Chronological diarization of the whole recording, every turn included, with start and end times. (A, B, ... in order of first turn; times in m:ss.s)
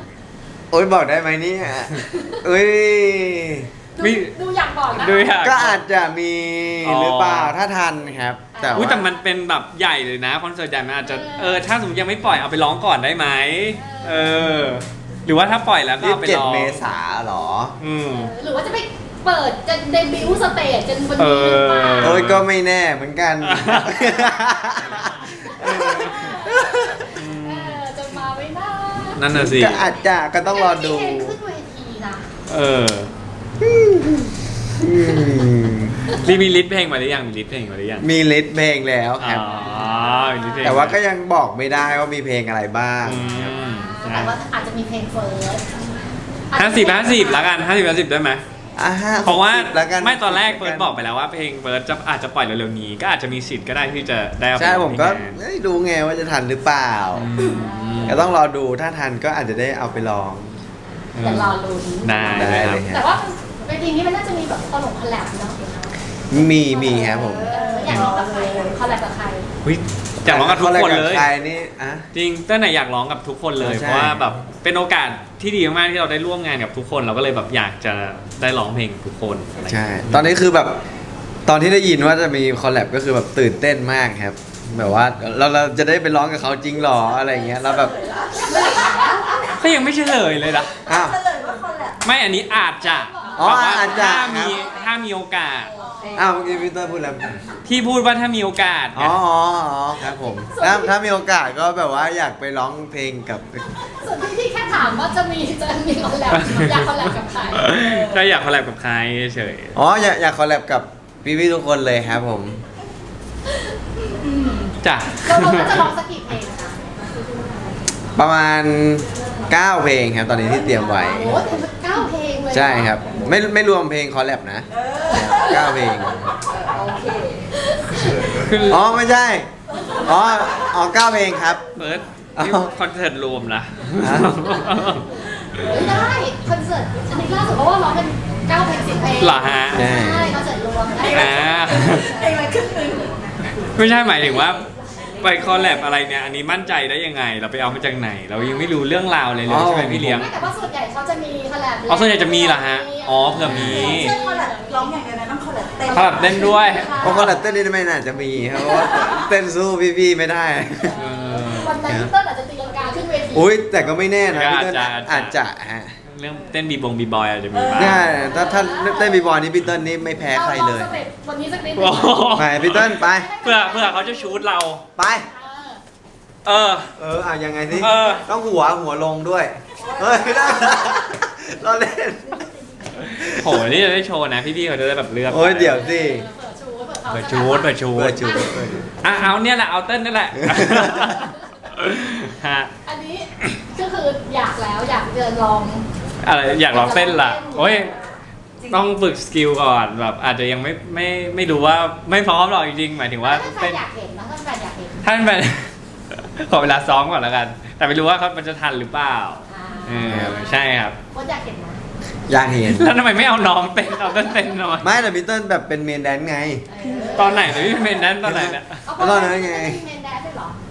0:00.7-0:03.7 A
0:04.0-0:05.4 B
0:04.0-0:04.3 C
0:04.9-0:05.8 C
0:05.4-0:09.0 A
0:06.8-0:07.5 C
0:08.5-0:09.1 B
0:08.7-0:16.8 C
0:11.0-0:11.6 B
0:13.8-0:14.5 B
0:16.0-0:17.8 A
0:17.8-0:18.3 C
0:18.1-0:22.2 B
0:21.2-0:22.4 C
0:22.0-0:27.1 A
0:23.4-0:24.0 C
0:24.1-0:29.2 B
0:25.7-0:26.3 C
0:27.1-0:27.8 C
0:29.0-0:29.8 C
0:29.3-0:31.4 A
0:30.4-0:32.3 B
0:32.5-0:33.1 C
0:33.6-0:36.0 A
0:36.1-0:38.1 C
0:38.0-0:39.4 A
0:39.2-0:41.0 C
0:39.4-0:40.1 B
0:40.6-0:43.3 A
0:43.0-0:44.3 C
0:43.2-0:45.7 B
0:46.5-0:47.5 B
0:46.5-0:48.4 C
0:48.8-0:50.9 A
0:49.2-0:55.4 C
0:54.6-1:00.6 A
0:57.1-0:58.2 C
0:57.4-0:58.2 B
1:01.0-1:05.9 B
1:01.2-1:02.8 C
1:02.3-1:03.1 A
1:06.3-1:08.0 A
1:06.8-1:08.8 D
1:07.5-1:09.5 B
1:09.6-1:11.3 C
1:10.2-1:12.0 A
1:12.1-1:20.3 C
1:13.6-1:14.2 A
1:19.7-1:20.8 A
1:21.4-1:28.0 A
1:27.6-1:29.6 D
1:28.4-1:29.4 B
1:29.5-1:30.7 C
1:30.8-1:31.2 A
1:30.8-1:32.0 D
1:32.0-1:35.7 C
1:32.8-1:34.2 B
1:33.4-1:34.6 A
1:36.1-1:37.4 A
1:37.6-1:39.2 C
1:38.9-1:43.6 A
1:40.5-1:40.9 B
1:43.9-1:47.7 B
1:46.3-1:49.8 C
1:49.7-1:52.6 A
1:54.3-1:56.8 B
1:54.8-1:55.9 C
1:58.1-2:01.6 A
2:00.7-2:01.4 D
2:00.9-2:03.2 B
2:02.5-2:06.3 A
2:04.9-2:06.0 D
2:06.6-2:07.5 D
2:07.6-2:08.3 B
2:08.3-2:08.8 C
2:08.6-2:11.6 A
2:11.8-2:15.9 C
2:12.4-2:12.7 A
2:14.0-2:14.4 A
2:15.6-2:21.4 B
2:19.2-2:19.8 C
2:19.7-2:20.3 A
2:21.0-2:23.2 D
2:21.1-2:22.1 C
2:23.7-2:24.6 C
2:25.2-2:30.3 C
2:29.4-2:30.3 A
2:30.1-2:34.9 B
2:31.9-2:34.1 C
2:33.4-2:37.1 D
2:35.8-2:37.3 B
2:35.9-2:36.9 C
2:37.0-2:41.0 A
2:38.6-2:39.2 B
2:40.9-2:41.8 C
2:41.0-2:43.6 B
2:41.8-2:42.1 A
2:43.3-2:46.0 A
2:44.3-2:45.4 C
2:46.0-2:48.1 C
2:47.5-2:48.0 D
2:47.7-2:51.0 A
2:48.1-2:49.3 B
2:50.3-2:54.4 B
2:51.8-2:54.8 C
2:52.3-2:53.3 A
2:55.0-2:55.3 A
2:55.2-2:55.8 B
2:56.4-2:56.9 C
2:57.0-3:02.4 A
2:57.7-2:58.2 C
3:03.1-3:05.8 C
3:03.1-3:03.6 A
3:05.3-3:06.2 A
3:05.7-3:08.7 B
3:07.1-3:08.3 C
3:07.9-3:08.9 A
3:09.0-3:12.7 C
3:10.5-3:11.0 A
3:12.8-3:15.8 B
3:16.2-3:17.9 C
3:16.7-3:18.0 B
3:18.7-3:23.8 C
3:23.2-3:25.0 B
3:25.0-3:31.0 C
3:29.5-3:31.8 B
3:30.0-3:30.3 A
3:32.3-3:33.0 A
3:32.6-3:34.9 C
3:33.9-3:34.5 B
3:34.8-3:36.6 A
3:36.7-3:38.0 B
3:36.8-3:37.3 D
3:37.2-3:38.8 C
3:38.2-3:39.8 A
3:38.8-3:40.6 B